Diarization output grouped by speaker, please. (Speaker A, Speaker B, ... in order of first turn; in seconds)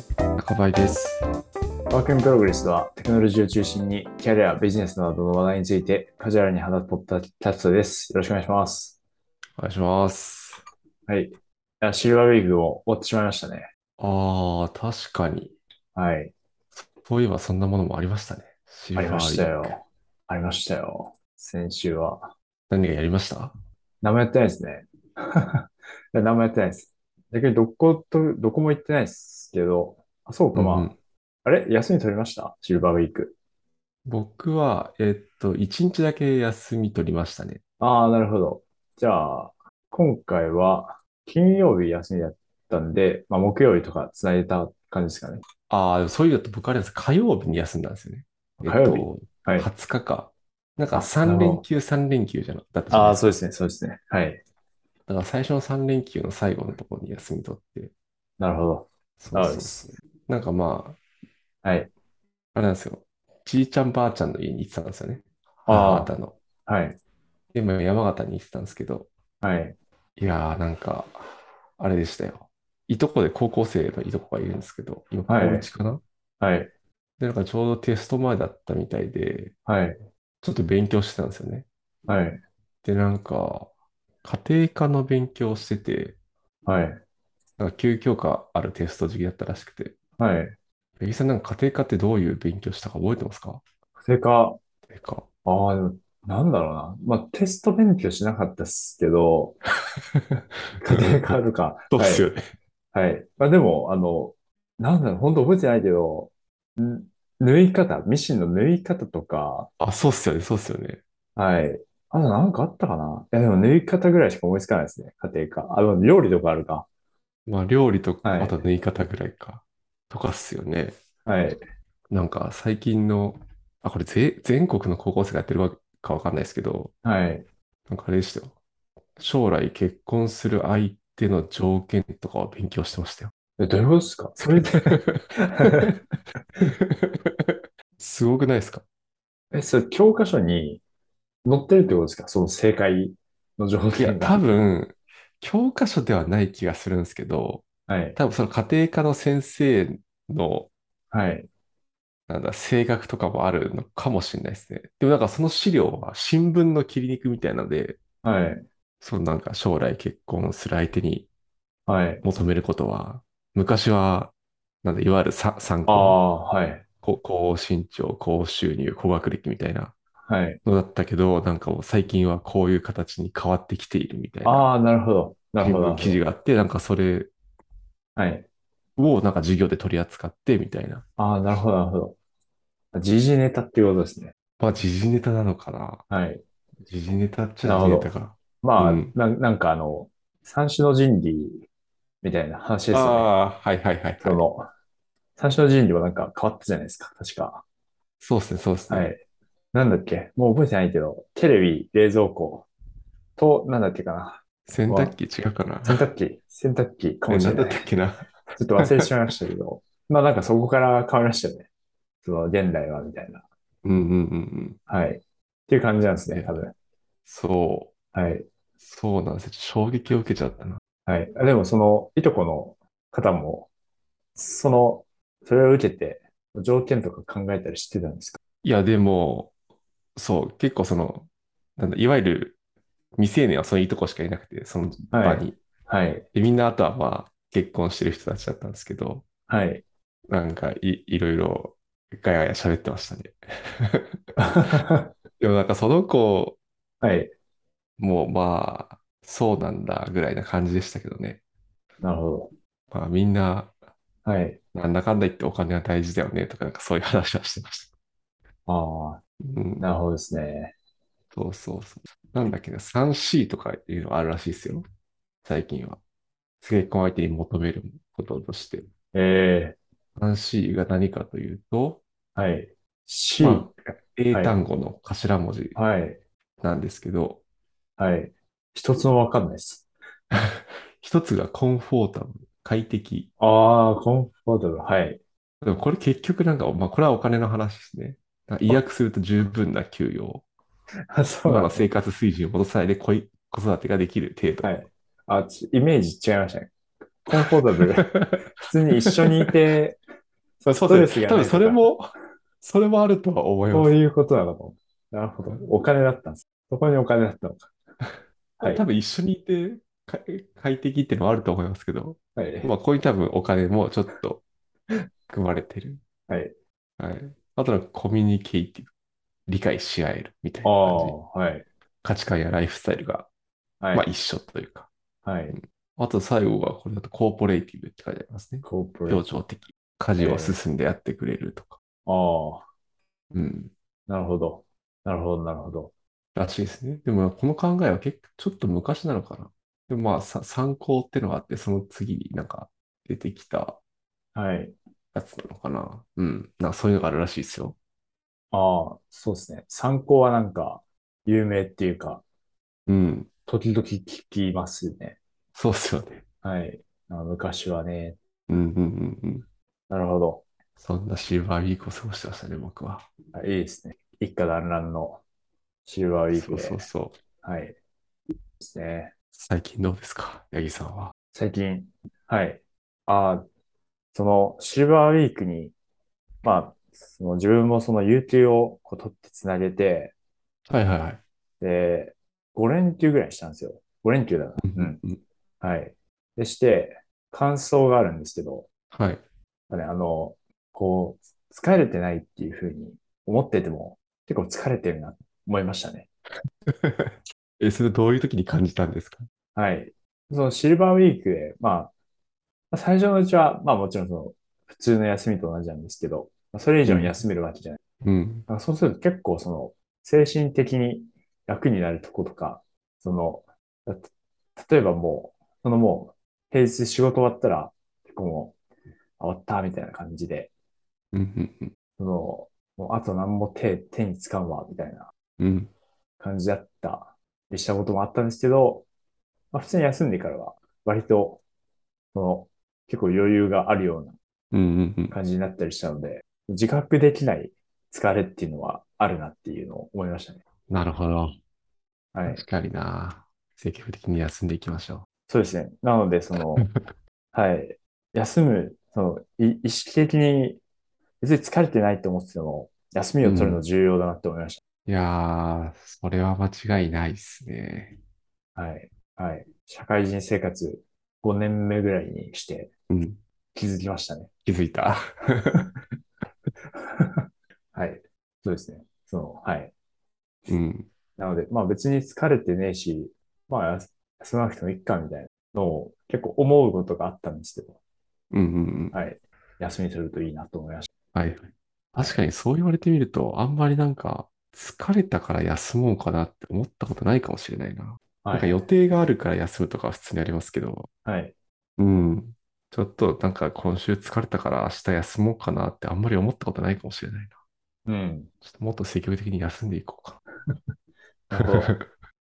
Speaker A: 0.4-1.2, 9.6-10.6, 14.0-15.6, 16.8-19.8, 22.7-23.6, 30.5-31.0, 34.1-37.6, 45.7-53.2, 55.1-57.9, 59.2-61.0, 62.5-66.4, 67.5-69.1, 70.2-71.2, 71.8-76.0, 77.2-79.5, 80.4-81.7, 82.8-83.7, 84.2-86.2, 87.6-90.0, 91.0-93.6, 94.9-95.3, 100.2-101.4, 101.9-102.4, 109.8-111.0, 117.5-121.0, 122.1-126.9, 127.9-128.6, 129.2-133.3, 134.5-135.9, 136.6-138.8, 144.0-150.7, 152.3-158.0, 159.0-161.3, 162.2-166.2, 167.0-169.9, 170.7-174.7, 175.6-177.3, 179.0-181.0, 184.6-186.0, 186.8-189.1, 192.9-194.4, 198.2-199.1, 204.7-206.0, 207.3-209.1, 213.8-214.8, 216.3-216.6, 217.3-217.9, 218.8-220.8, 228.6-229.5, 230.2-232.6, 233.2-235.6, 236.3-239.2, 240.3-244.2, 245.4-246.6, 248.0-251.4, 252.9-253.7, 254.7-257.9, 259.4-259.9, 261.3-264.9, 265.4-266.0, 266.6-268.9, 270.2-272.0, 273.4-275.8, 276.6-277.4, 280.3-283.3, 285.6-290.4, 291.5-294.7, 298.1-298.4, 300.7-303.9, 308.6-314.4, 315.3-316.0, 317.0-318.9, 319.5-321.1, 322.0-323.3, 323.9-324.9, 326.0-331.8, 333.3-333.7, 336.4-343.8, 345.1-347.8, 352.9-353.3, 355.6-356.2, 358.5-359.5, 360.8-363.1, 366.3-367.2, 369.3-371.1, 380.7-381.2, 384.6-385.2, 388.9-389.2, 396.7-399.3, 406.9-407.2, 408.0-408.5, 421.1-421.7, 425.4-425.7, 434.5-435.2, 440.7-441.4, 442.3-445.1, 453.2-453.6, 454.9-458.0, 462.9-463.2, 464.4-465.7, 470.5-470.9, 478.3-478.9, 481.1-490.9, 491.8-497.3, 498.4-500.2, 501.4-501.9
Speaker B: 1.9-9.0, 11.1-13.7, 15.9-16.3, 18.9-22.3, 24.0-30.9, 31.4-33.4, 37.8-45.4, 48.6-49.7, 50.9-51.6, 52.9-54.4, 58.4-59.9, 61.6-61.9, 65.7-66.1, 66.7-67.0, 69.4-69.8, 75.3-75.7, 76.4-76.7, 79.7-80.0, 82.1-82.4, 86.7-87.0, 90.2-90.5, 94.0-94.6, 95.5-99.6, 100.8-102.3, 102.9-109.7, 111.4-116.9, 118.2-118.6, 121.3-121.6, 127.0-127.5, 133.6-135.9, 139.5-140.8, 141.4-144.4, 147.9-148.2, 151.1-151.5, 158.2-158.7, 161.9-162.2, 165.9-166.8, 170.3-170.6, 174.4-176.2, 178.2-178.5, 181.2-182.2, 182.9-184.3, 186.1-186.4, 187.7-188.1, 188.6-191.7, 192.2-193.3, 194.2-194.7, 195.4-197.6, 198.9-199.2, 199.7-202.7, 203.4-205.2, 205.8-207.9, 208.6-211.7, 212.2-213.4, 214.9-216.7, 218.1-218.5, 221.1-223.7, 224.3-228.4, 235.1-236.3, 239.5-239.8, 244.4-245.1, 247.0-247.3, 252.0-252.5, 254.2-254.6, 258.7-259.2, 259.8-260.8, 269.1-269.8, 272.4-273.7, 274.3-274.6, 275.8-276.2, 278.0-279.9, 283.4-285.2, 291.1-291.9, 294.6-296.7, 297.3-300.0, 300.6-301.9, 303.7-307.7, 312.4-312.7, 316.3-316.5, 320.6-321.7, 323.8-324.1, 325.2-325.6, 328.6-329.2, 330.2-330.6, 332.1-332.7, 334.1-335.9, 344.4-344.8, 348.5-352.2, 353.5-355.2, 356.4-358.2, 359.9-360.4, 363.3-365.2, 365.9-366.9, 367.4-367.8, 368.6-369.1, 371.3-373.4, 374.1-375.7, 376.4-380.1, 381.6-385.0, 385.6-388.7, 389.7-396.1, 399.6-401.9, 402.7-407.8, 408.5-418.6, 419.2-420.5, 422.0-425.1, 426.2-428.9, 429.5-431.4, 432.1-434.2, 435.1-440.4, 442.1-442.4, 445.3-446.7, 447.3-450.6, 451.2-454.6, 458.6-462.7, 463.5-464.3, 466.8-469.7, 471.2-477.8, 478.9-480.9, 481.9-482.2, 488.2-488.6, 491.1-491.3, 497.9-498.3, 501.3-501.8